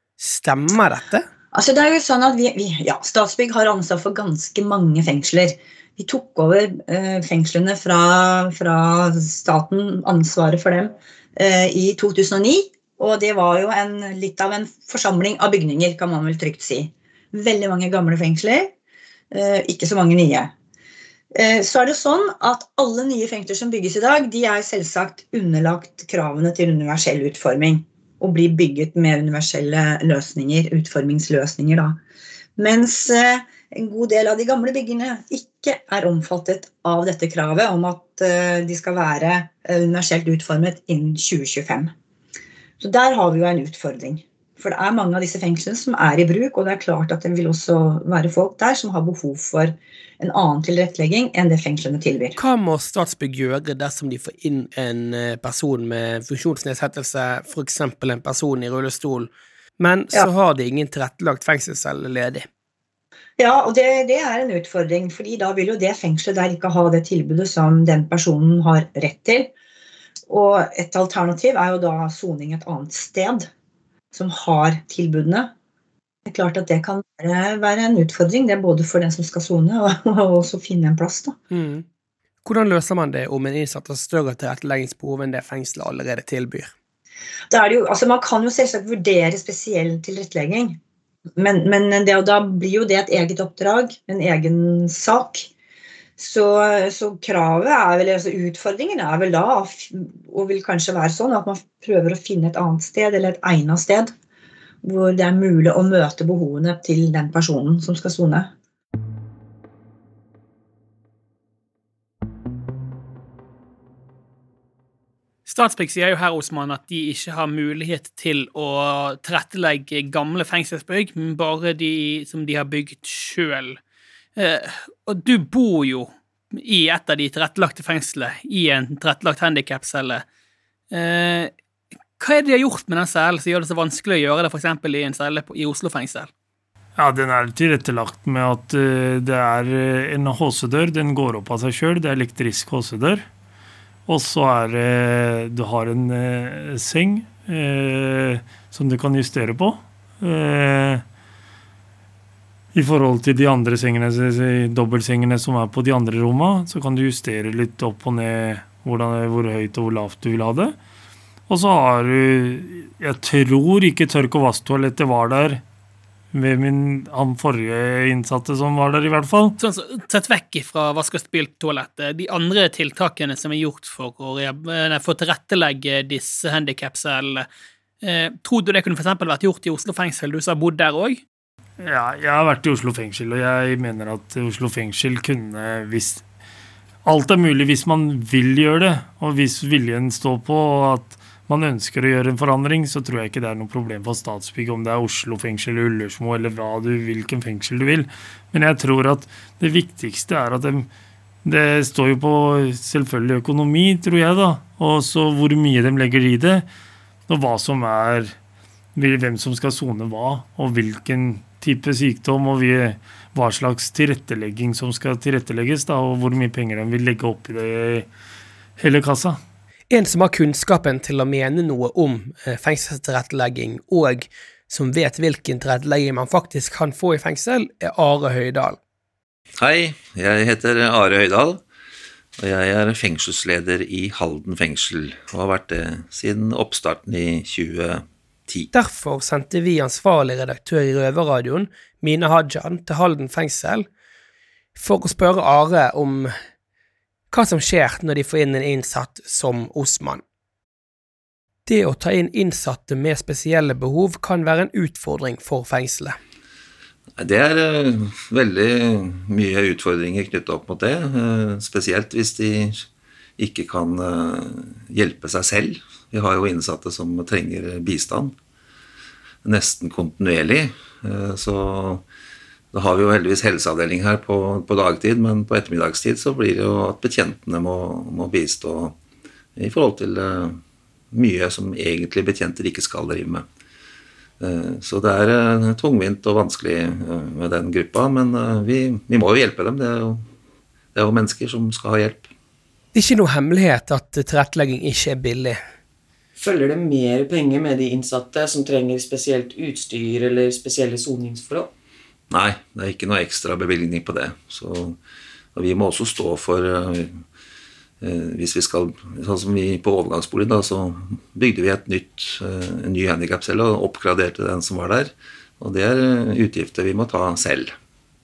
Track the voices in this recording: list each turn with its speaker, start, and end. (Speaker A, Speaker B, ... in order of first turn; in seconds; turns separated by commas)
Speaker A: 0.2-1.3, Speaker B: 1.5-18.7, Speaker B: 19.3-20.5, Speaker B: 21.3-32.0, Speaker B: 32.6-41.9, Speaker B: 42.8-52.4, Speaker A: 52.4-62.5, Speaker B: 63.4-69.5, Speaker B: 70.3-73.5, Speaker B: 74.1-75.5, Speaker B: 76.3-81.3, Speaker A: 81.5-81.8, Speaker A: 82.4-86.7, Speaker B: 87.5-90.8, Speaker B: 91.4-95.5, Speaker B: 96.2-104.1, Speaker B: 104.8-108.5, Speaker C: 115.5-123.8, Speaker C: 124.4-130.2, Speaker C: 130.9-131.5, Speaker C: 132.2-136.3, Speaker D: 137.0-143.2, Speaker D: 144.1-151.0, Speaker D: 152.7-160.8, Speaker D: 161.5-165.6, Speaker D: 166.3-169.6, Speaker C: 169.6-177.5, Speaker C: 178.0-181.2, Speaker D: 181.8-186.2, Speaker D: 187.0-200.9, Speaker D: 201.4-206.7, Speaker D: 207.3-208.4, Speaker D: 208.9-218.1, Speaker D: 218.8-219.4, Speaker A: 219.9-228.8, Speaker E: 229.6-231.6, Speaker E: 232.4-238.7, Speaker A: 238.7-243.9, Speaker A: 244.8-246.3, Speaker A: 247.3-250.2, Speaker A: 251.7-256.2, Speaker E: 257.2-268.4, Speaker E: 269.4-272.0, Speaker E: 272.7-279.0, Speaker E: 279.6-280.6, Speaker E: 281.1-283.4, Speaker E: 284.4-290.3, Speaker E: 290.9-292.3, Speaker A: 292.9-295.6, Speaker F: 296.4-301.7, Speaker E: 302.3-305.0, Speaker E: 305.5-307.2, Speaker E: 308.0-317.7